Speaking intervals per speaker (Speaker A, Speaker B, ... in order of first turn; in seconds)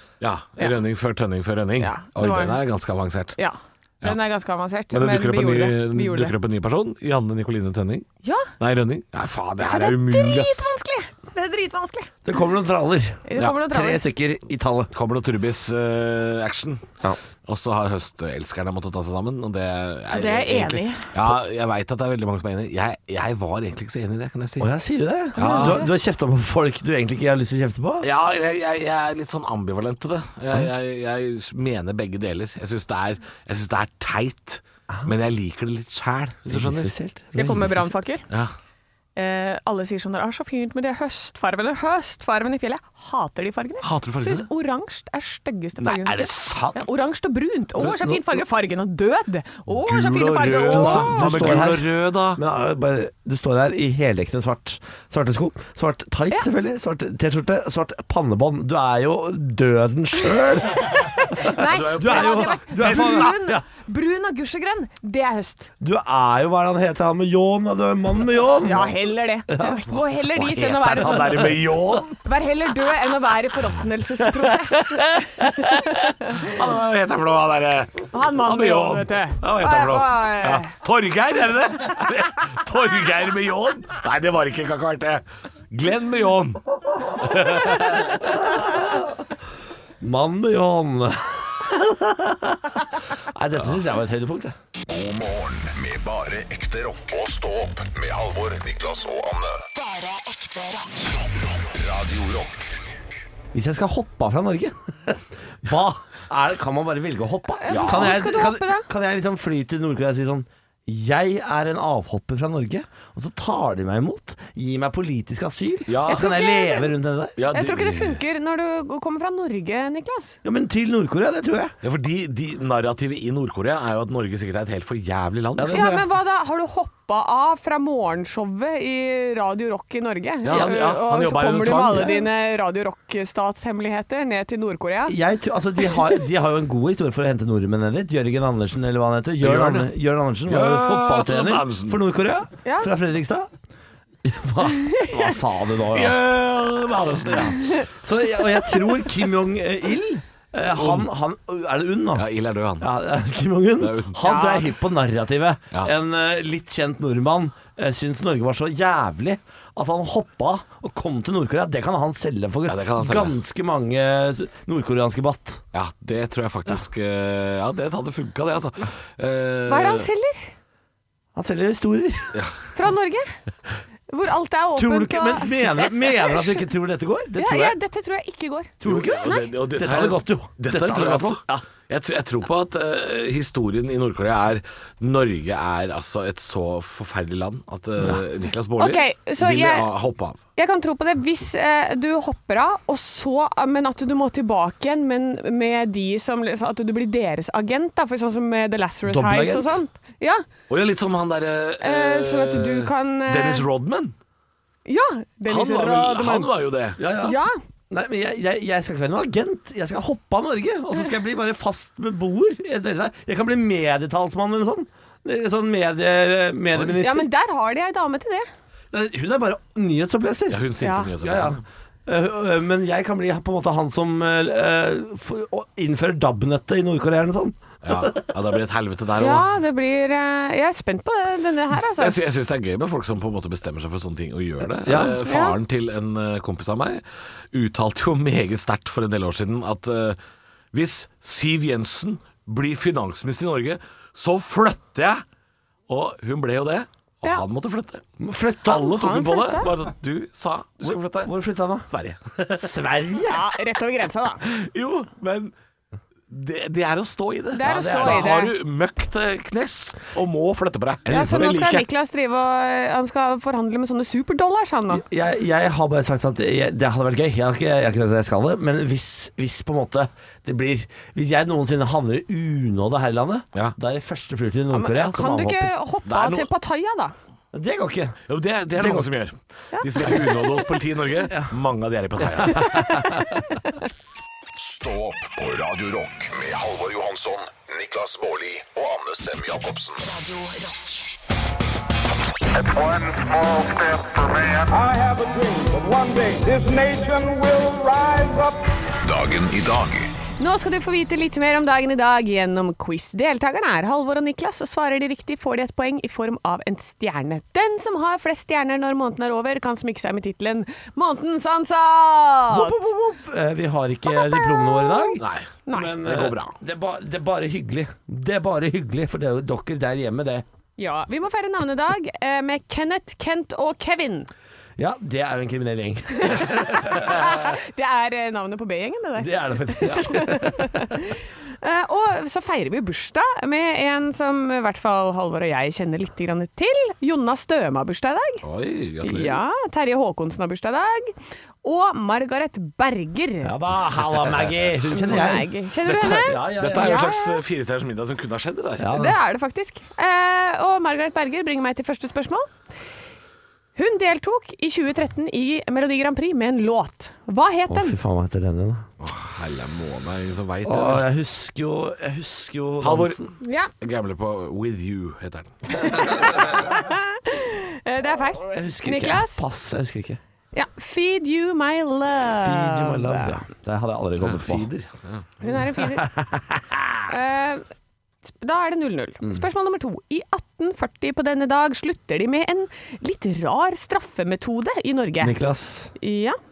Speaker A: 0.2-3.4, 4.9-8.1, 8.6-10.7, 14.9-16.9, 17.4-24.7, 25.3-25.8, 28.0-36.9, 43.8-44.5, 45.8-46.9, 49.8-52.4, 61.6-63.3, 70.3-72.1, 74.7-86.6, 87.2-88.3, 107.7-108.2, 115.9-116.3, 117.4-118.2, 121.8-125.9, 130.4-132.2, 139.4-139.9, 140.4-142.0, 145.9-147.7, 150.7-151.1, 152.1-152.9, 153.8-154.2, 162.7-163.3, 165.7-170.1, 178.8-190.4, 200.7-204.1, 205.4-207.0, 220.5-221.6, 227.8-229.5, 232.0-240.2, 240.7-245.2, 245.9-248.0, 248.7-251.3, 251.9-252.7, 254.4-255.5, 256.3-261.9, 276.1-276.5, 278.3-282.9, 315.2-316.5, 338.4-339.4, 344.1-345.3, 345.9-349.0, 359.0-361.1, 362.8-363.2, 363.8-366.2, 374.2-375.3
Speaker B: 1.8-2.6, 3.4-6.3, 8.2-8.5, 9.6-12.1, 13.2-14.1, 20.1-21.1, 25.4-25.9, 37.3-38.2, 39.1-51.5, 61.0-65.7, 68.6-76.5, 78.1-80.7, 107.6-108.9, 116.1-116.9, 117.5-120.4, 125.7-135.2, 142.6-142.9, 154.2-154.7, 169.7-170.5, 172.7-173.4, 174.1-176.5, 177.3-178.7, 179.2-179.5, 188.8-189.9, 190.6-200.4, 201.8-203.7, 204.8-206.5, 207.2-207.5, 216.9-218.5, 220.8-221.1, 229.2-232.1, 235.2-235.6, 248.9-249.7, 253.3-254.4, 257.5-258.5, 261.1-265.0, 274.7-277.1, 279.7-280.7, 300.4-312.9, 314.1-315.9, 320.8-324.3, 326.2-338.4, 339.0-343.5, 344.9-347.4, 348.9-352.5, 353.8-357.9, 363.4-363.7, 365.8-369.4, 370.5-373.3, 375.4-376.1, 377.1-377.6, 378.2-385.3, 386.0-386.4
Speaker C: 12.2-14.9, 24.6-28.1, 36.5-37.9, 50.4-63.6, 65.8-69.8, 88.6-89.1, 90.0-94.5, 103.5-117.4, 120.4-121.7, 125.6-126.0, 135.1-143.5, 144.2-146.2, 147.3-152.3, 152.8-165.6, 171.3-172.3, 174.7-177.8, 178.8-181.7, 199.1-199.8, 207.0-207.3, 207.9-217.3, 218.9-220.6, 221.2-228.1, 234.8-235.2, 248.2-249.0, 250.8-251.9, 252.5-253.4, 264.9-275.7, 277.5-278.1, 278.7-279.1, 282.4-283.2, 312.5-315.2, 315.7-320.4, 324.8-327.3, 329.2-330.9, 343.4-347.0, 348.8-349.1, 357.7-358.8, 360.6-363.3, 368.3-370.2, 372.3-374.7, 376.0-376.9, 385.2-385.9
Speaker D: 94.9-99.6, 101.6-102.7, 284.6-290.0, 299.0-300.1
Speaker E: 99.7-101.1, 290.0-291.1
Speaker F: 292.5-294.7
Speaker G: 294.7-298.6